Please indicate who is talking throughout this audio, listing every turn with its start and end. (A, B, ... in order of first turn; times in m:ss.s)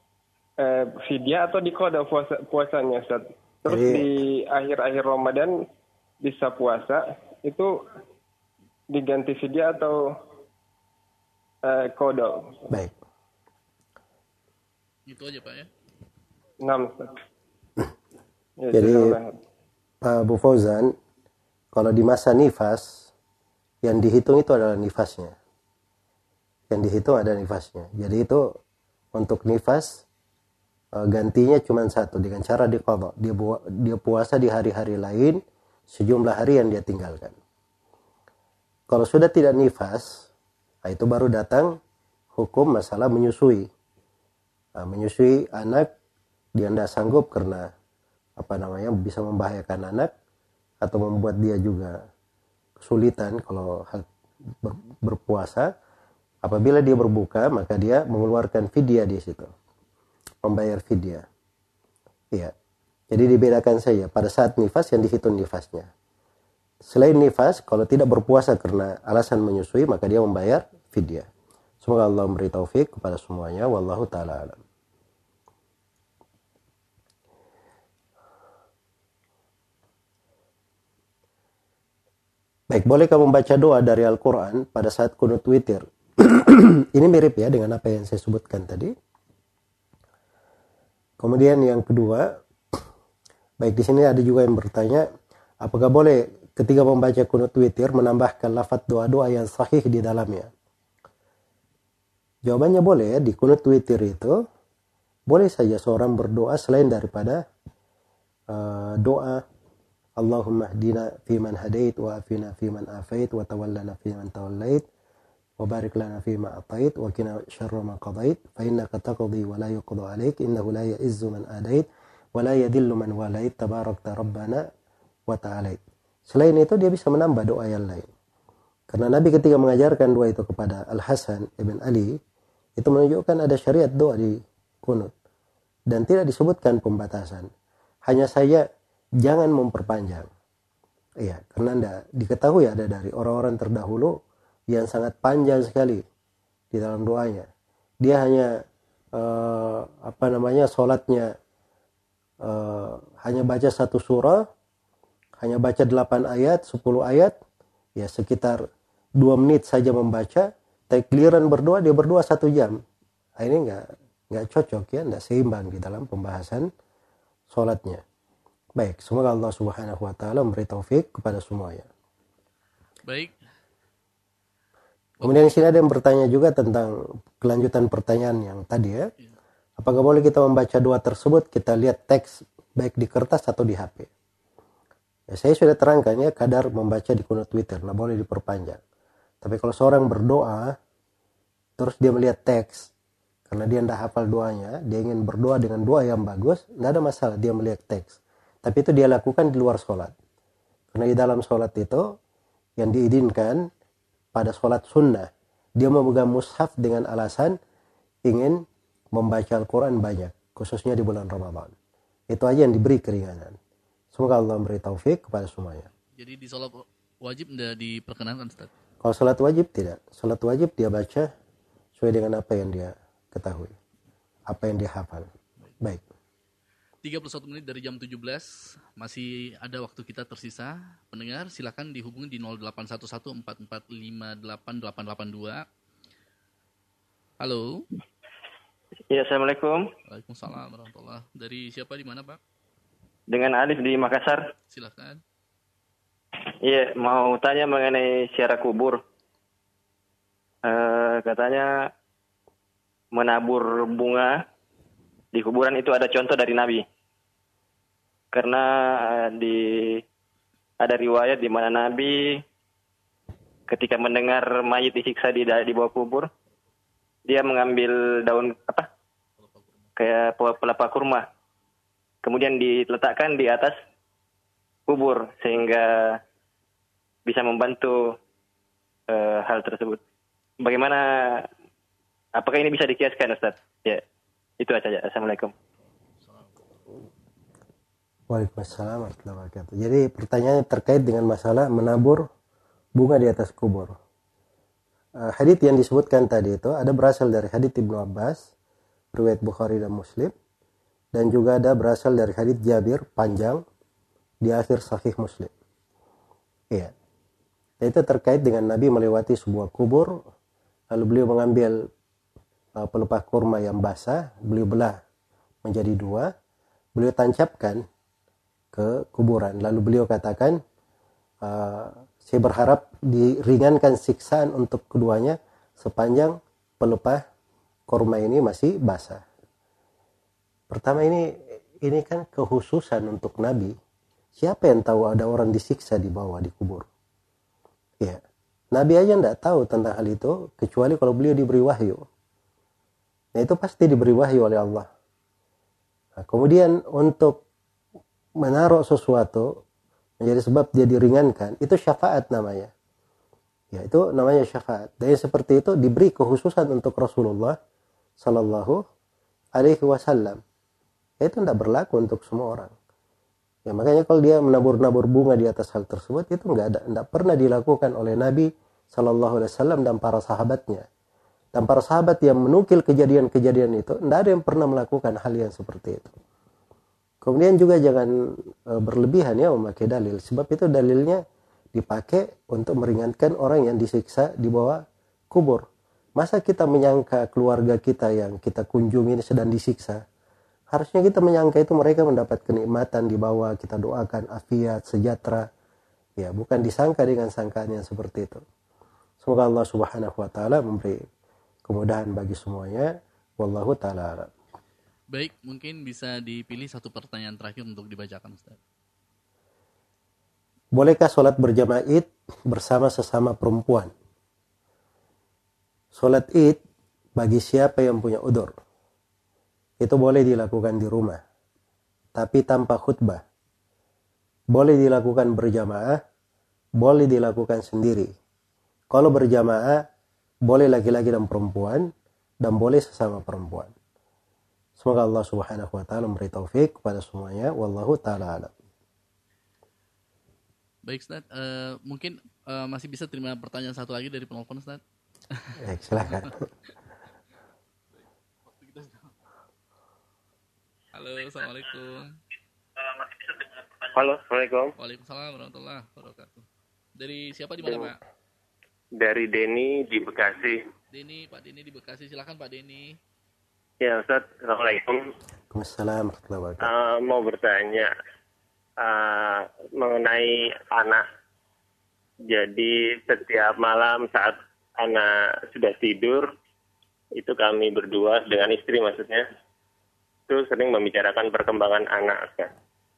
0:00.6-0:05.5 A
0:03.7-0:04.1 B
0:06.2-0:07.7 A
0:08.9-0:10.0 A
0:11.6-0:12.6 A
0:15.1-0:15.7 C
0:16.6-0:17.2 A
0:18.6-0:19.4 A
0:18.7-0:19.1 B
0:20.0-0:20.9 B
0:21.7-0:23.0 B
0:23.8-0:25.3 B
0:26.7-0:28.5 B
0:29.2-0:30.0 B
0:31.0-0:35.4 B
0:35.9-0:37.3 B
0:38.9-0:40.2 B
0:40.8-0:41.7 B
0:42.4-0:43.7 B
0:44.8-0:45.9 B
0:46.6-0:47.7 B
0:48.4-0:50.1 B
0:50.8-0:51.9 B
0:52.8-0:54.0 B
0:54.6-0:55.7 B
0:56.4-0:59.5 B
1:00.4-1:01.2 B
1:03.1-1:05.9 B
1:06.8-1:11.3 B
1:11.8-1:14.6 B
1:22.7-1:28.9 B
1:31.2-1:32.3 B
1:33.6-1:35.0 B
1:35.6-1:40.5 B
1:42.4-1:44.4 B
1:45.3-1:47.4 B
1:48.5-1:49.4 B
1:50.2-1:54.8 B
1:55.6-2:04.6 B
2:05.3-2:08.1 B
2:08.9-2:12.1 B
2:12.8-2:15.1 B
2:15.9-2:17.5 B
2:18.0-2:18.6 B
2:19.2-2:20.3 B
2:21.2-2:24.1 B
2:24.7-2:26.0 B
2:26.7-2:27.5 B
2:28.0-2:28.5 B
2:29.2-2:31.3 B
2:32.4-2:34.4 B
2:35.4-2:37.3 B
2:38.0-2:38.6 B
2:39.2-2:42.8 B
2:43.4-2:46.7 B
2:47.5-2:48.0 B
2:48.8-2:51.9 B
2:53.1-2:53.3 C
2:55.2-2:59.0 B
2:59.8-3:04.1 B
3:05.3-3:08.8 B
3:09.4-3:10.7 B
3:11.8-3:12.9 B
3:13.5-3:20.1 B
3:20.9-3:22.0 B
3:22.8-3:23.6 B
3:24.3-3:27.6 B
3:28.3-3:28.6 B
3:29.1-3:31.7 B
3:32.3-3:33.6 B
3:34.1-3:35.9 B
3:36.1-3:38.7 C
3:39.0-3:41.3 B
3:42.0-3:43.7 B
3:44.5-3:45.3 B
3:47.0-3:55.6 C
3:57.4-3:57.8 C
3:59.1-3:59.9 D
4:00.1-4:02.4 C
4:03.3-4:04.4 D
4:04.7-4:05.2 C
4:06.6-4:09.0 D
4:10.6-4:11.9 D
4:13.1-4:14.4 D
4:15.3-4:16.8 D
4:18.3-4:20.0 D
4:20.8-4:22.4 D
4:23.7-4:26.3 D
4:27.2-4:28.9 D
4:29.4-4:29.8 C
4:30.0-4:31.3 D
4:32.2-4:33.8 D
4:34.9-4:36.2 D
4:37.2-4:38.2 D
4:39.1-4:40.0 D
4:40.6-4:41.5 D
4:42.4-4:44.0 D
4:44.6-4:45.5 D
4:48.3-4:52.2 B
4:53.0-4:54.0 B
4:55.2-4:58.4 B
4:59.1-5:00.3 B
5:01.1-5:03.6 B
5:04.4-5:05.5 B
5:07.8-5:10.1 B
5:10.9-5:11.8 B
5:12.8-5:15.0 B
5:15.6-5:16.3 B
5:17.0-5:17.8 B
5:18.7-5:20.6 B
5:21.4-5:27.2 B
5:27.9-5:29.2 B
5:30.7-5:31.2 B
5:31.8-5:33.7 B
5:34.4-5:36.9 B
5:38.7-5:42.0 B
5:43.3-5:44.9 B
5:46.2-5:47.4 B
5:48.4-5:49.5 B
5:50.2-5:52.7 B
5:53.7-5:57.6 B
5:58.2-5:58.8 B
5:59.6-6:00.4 B
6:01.2-6:02.7 B
6:03.7-6:10.8 B
6:11.5-6:16.1 B
6:17.2-6:18.1 B
6:18.7-6:21.2 B
6:21.7-6:25.6 B
6:26.2-6:30.0 B
6:30.7-6:35.4 B
6:36.2-6:38.4 B
6:39.2-6:41.0 B
6:41.7-6:44.3 B
6:45.1-6:48.6 C
6:50.8-6:53.9 B
6:55.9-6:56.6 B
6:57.2-6:58.5 B
6:59.8-7:01.2 B
7:02.2-7:03.2 B
7:04.5-7:06.0 B
7:06.8-7:08.1 B
7:08.9-7:09.8 B
7:10.5-7:11.9 B
7:12.4-7:13.7 B
7:14.8-7:18.5 B
7:20.8-7:24.8 C
7:25.3-7:26.3 C
7:25.6-7:26.4 B
7:28.0-7:29.1 C
7:30.9-7:32.2 C
7:33.9-7:34.7 E
7:34.8-7:36.4 C
7:37.0-7:38.0 C
7:39.0-7:40.6 E
7:40.9-7:43.0 C
7:43.8-7:45.0 E
7:45.5-7:46.7 B
7:46.6-7:47.9 E
7:48.8-7:51.0 E
7:52.3-7:56.3 E
7:57.2-7:59.2 E
8:00.3-8:02.5 E